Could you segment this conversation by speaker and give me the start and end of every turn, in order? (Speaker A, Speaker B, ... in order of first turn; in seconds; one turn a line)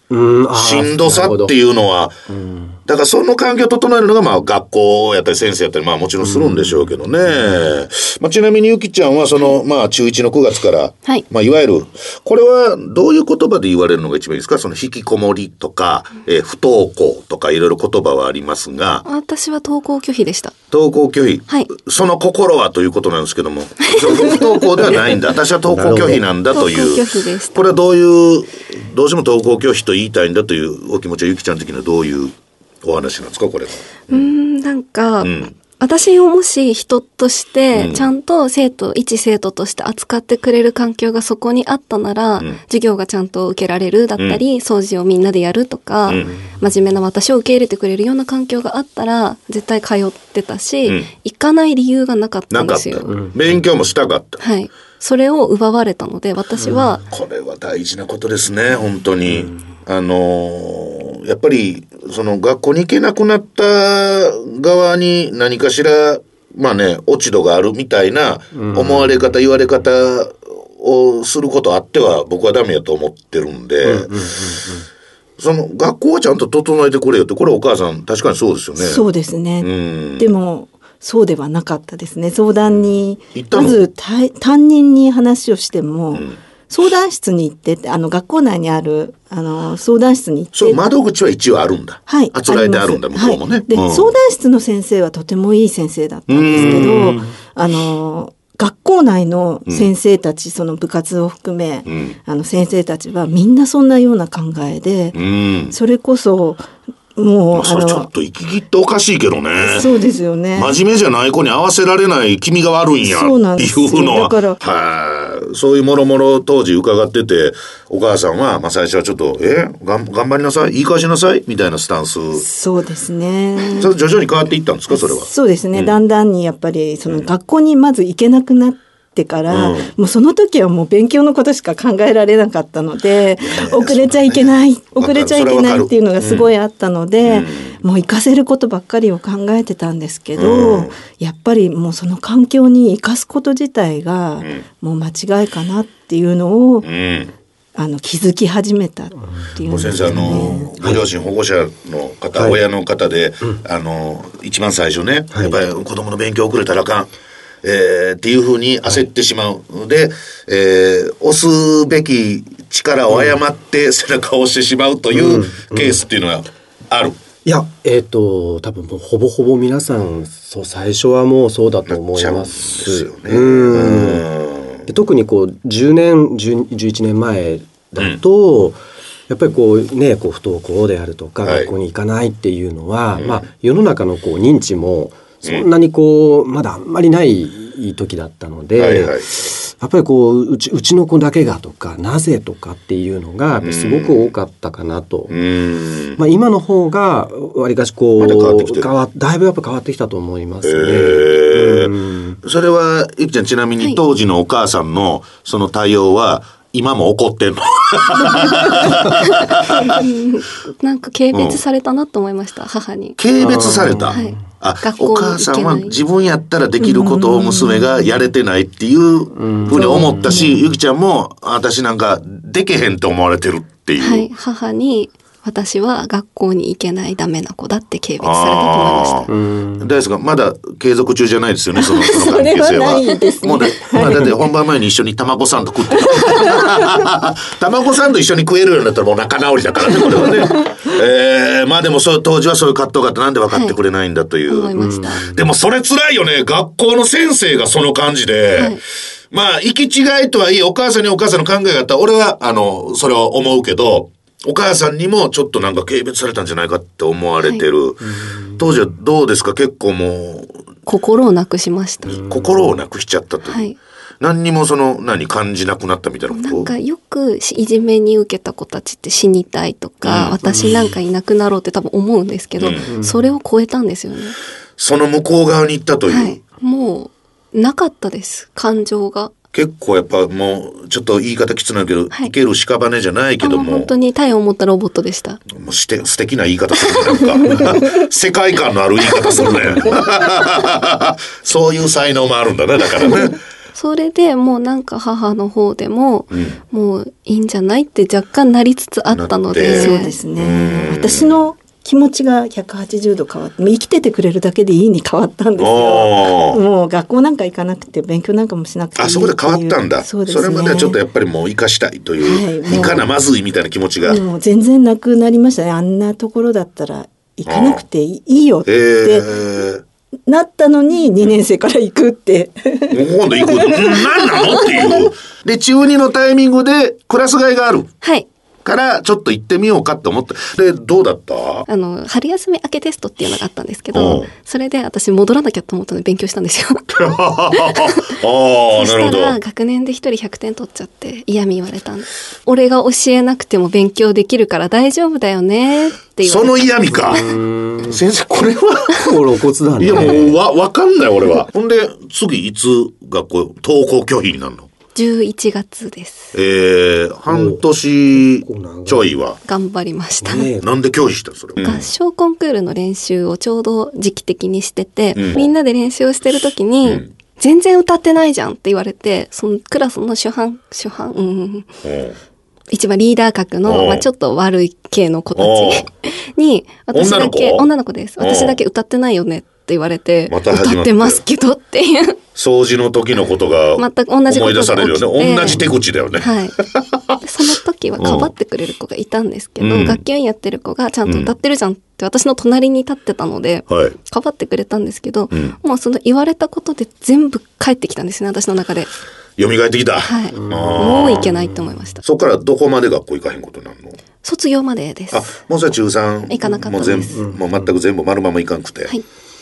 Speaker A: 0.1-1.5
Speaker B: 0.6-2.1
Speaker A: 2.3-2.8
Speaker B: 2.9-19.1
Speaker A: 6.2-7.5
Speaker C: 19.1-20.6
Speaker B: 20.7-34.3
Speaker C: 23.9-24.4
Speaker A: 25.7-26.2
Speaker C: 26.5-27.7
Speaker C: 34.1-53.2
Speaker B: 35.2-35.5
Speaker B: 37.7-38.1
Speaker B: 46.1-46.3
Speaker B: 52.5-54.4
Speaker C: 54.4-57.0
Speaker B: 57.1-74.2
Speaker A: 68.5-69.1
Speaker A: 73.8-74.9
Speaker B: 75.4-79.0
Speaker D: 78.8-90.8
Speaker B: 79.6-80.3
Speaker B: 83.3-83.8
Speaker B: 86.1-86.4
Speaker B: 90.5-94.1
Speaker D: 92.1-105.2
Speaker B: 96.3-97.3
Speaker B: 101.9-102.2
Speaker B: 105.1-105.8
Speaker D: 105.7-108.1
Speaker B: 107.5-109.9
Speaker D: 109.6-110.7
Speaker B: 110.5-122.5
Speaker D: 113.0-114.6
Speaker D: 122.4-123.9
Speaker B: 123.8-126.0
Speaker D: 124.9-146.9
Speaker B: 129.5-129.9
Speaker B: 133.4-136.5
Speaker B: 137.2-137.8
Speaker B: 140.4-140.9
Speaker B: 146.8-147.3
Speaker D: 147.8-150.7
Speaker B: 149.7-157.1
Speaker A: 150.0-151.0
Speaker A: 155.3-155.6
Speaker B: 157.6-167.2
Speaker A: 165.1-166.0
Speaker A: 167.4-174.3
Speaker B: 171.9-174.8
Speaker A: 174.9-178.8
Speaker A: 179.3-195.3
Speaker B: 181.4-181.7
Speaker B: 183.2-183.4
Speaker B: 188.8-189.3
Speaker B: 193.6-194.3
Speaker B: 195.3-196.2
Speaker A: 196.2-202.4
Speaker B: 198.2-198.9
Speaker B: 200.6-210.1
Speaker C: 209.5-213.2
Speaker B: 211.3-211.6
Speaker B: 213.2-224.3
Speaker A: 213.4-214.3
Speaker C: 214.1-215.9
Speaker D: 216.8-217.9
Speaker A: 219.4-220.4
Speaker C: 219.7-220.6
Speaker C: 224.0-229.3
Speaker B: 228.2-260.6
Speaker A: 229.3-229.9
Speaker D: 231.8-234.3
Speaker D: 236.2-236.5
Speaker C: 244.5-245.3
Speaker A: 244.8-245.4
Speaker C: 248.6-248.8
Speaker C: 260.9-262.2
Speaker B: 262.1-263.7
Speaker C: 263.5-263.8
Speaker B: 264.2-266.7
Speaker C: 266.3-274.4
Speaker B: 270.0-270.7
Speaker B: 272.6-272.9
Speaker A: 272.9-273.3
Speaker B: 274.8-276.4
Speaker C: 276.1-279.3
Speaker B: 279.5-283.9
Speaker C: 283.4-285.4
Speaker B: 285.5-293.4
Speaker C: 293.8-300.1
Speaker B: 296.3-296.6
Speaker B: 299.1-301.4
Speaker D: 299.6-311.0
Speaker B: 305.6-306.6
Speaker B: 309.0-314.2
Speaker D: 312.2-313.1
Speaker D: 314.0-319.3
Speaker B: 317.5-317.8
Speaker B: 318.7-319.8
Speaker D: 320.3-325.1
Speaker B: 322.9-327.9
Speaker B: 328.6-331.7
Speaker C: 331.7-338.1
Speaker B: 333.9-334.3
Speaker B: 336.9-339.4
Speaker C: 338.8-347.3
Speaker B: 346.2-347.2
Speaker A: 347.1-348.0
Speaker B: 347.8-349.1
Speaker A: 348.9-350.4
Speaker B: 349.8-354.7
Speaker C: 354.9-356.3
Speaker B: 356.3-359.4
Speaker A: 357.3-359.1
Speaker C: 359.5-360.5
Speaker A: 360.2-360.7
Speaker B: 360.6-361.8
Speaker C: 361.6-371.7
Speaker B: 365.2-365.5
Speaker B: 371.8-372.2
Speaker C: 372.7-382.2
Speaker B: 373.6-374.1
Speaker B: 375.4-375.9
Speaker B: 376.9-378.6
Speaker B: 380.3-381.2
Speaker B: 382.4-387.2
Speaker C: 383.8-385.6
Speaker C: 386.2-386.6
Speaker C: 387.2-398.9
Speaker B: 388.0-388.3
Speaker B: 389.6-390.0
Speaker B: 391.1-391.3
Speaker B: 393.7-393.9
Speaker B: 399.4-401.3
Speaker C: 400.0-402.0
Speaker A: 400.4-401.5
Speaker B: 402.0-404.0
Speaker C: 404.2-405.3
Speaker B: 405.1-408.9
Speaker C: 406.3-407.1
Speaker A: 406.8-407.7